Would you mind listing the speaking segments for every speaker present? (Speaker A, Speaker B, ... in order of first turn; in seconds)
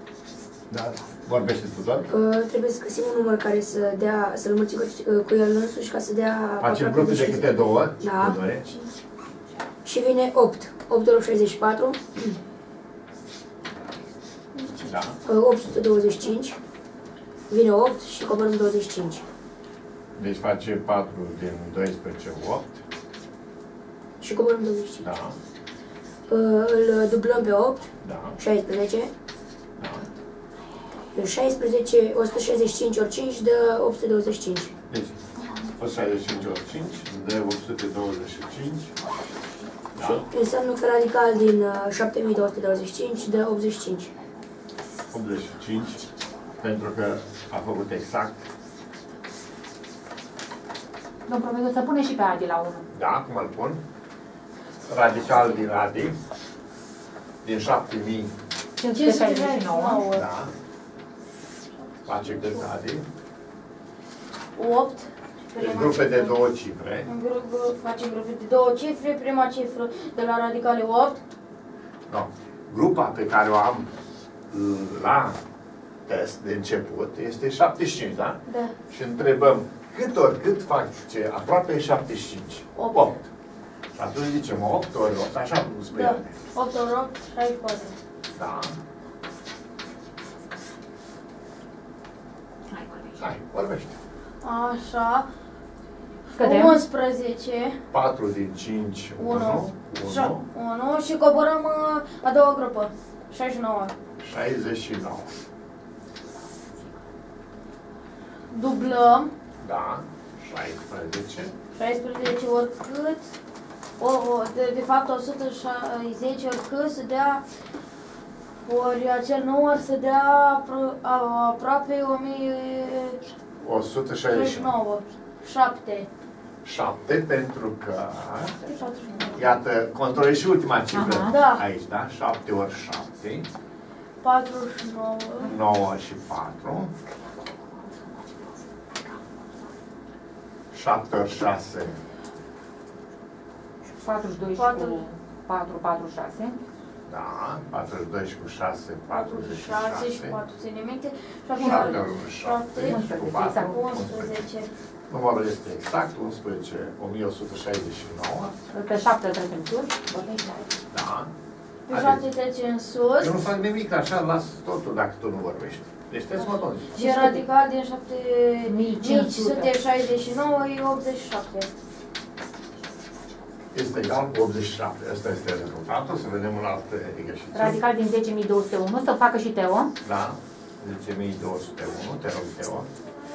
Speaker A: 0.7-2.1, 6.6-8.7, 14.8-15.2, 20.2-22.8, 25.0-25.4, 28.0-28.4, 29.8-30.1, 34.9-35.2, 35.8-38.9, 40.0-40.3, 45.1-46.0, 46.6-48.5, 52.9-53.8, 54.9-56.2, 57.4-58.3, 60.1-60.5, 62.1-63.1, 65.6-67.1, 72.1-73.9, 74.5-75.4, 76.1-83.3, 84.0-86.4, 88.4-88.8, 93.2-94.0, 97.9-100.5, 104.2-105.3, 109.6-111.5, 123.6-124.7, 126.6-128.6, 129.3-133.5, 135.4-136.9, 140.7-142.0, 147.1-150.4, 151.6-154.4, 155.1-158.5, 160.9-161.3, 161.9-162.2, 163.2-166.9, 173.7-177.8, 180.0-182.9
Speaker B: 2.1-8.4, 9.8-12.3, 15.2-16.6, 17.5-19.2, 24.2-25.1, 26.3-29.1, 31.1-34.7, 40.0-44.1
Speaker C: 51.3-52.8, 58.8-60.2, 92.7-93.2, 96.3-96.8, 130.9-131.3, 144.0-146.6, 151.6-152.1, 152.8-154.0, 158.7-160.7, 166.9-167.5, 168.7-169.7, 177.5-179.9
Speaker D: 58.9-60.2, 64.6-66.4, 67.1-71.2, 78.5-78.7, 82.8-83.1, 85.9-88.0, 94.4-95.3, 96.4-97.8, 99.2-103.9, 108.5-109.3, 111.8-113.3, 114.0-117.4, 118.7-123.2, 124.3-126.1, 128.6-129.5, 131.3-131.6, 134.2-135.5, 144.6-145.1, 149.1-154.7, 161.9-163.4, 166.9-171.7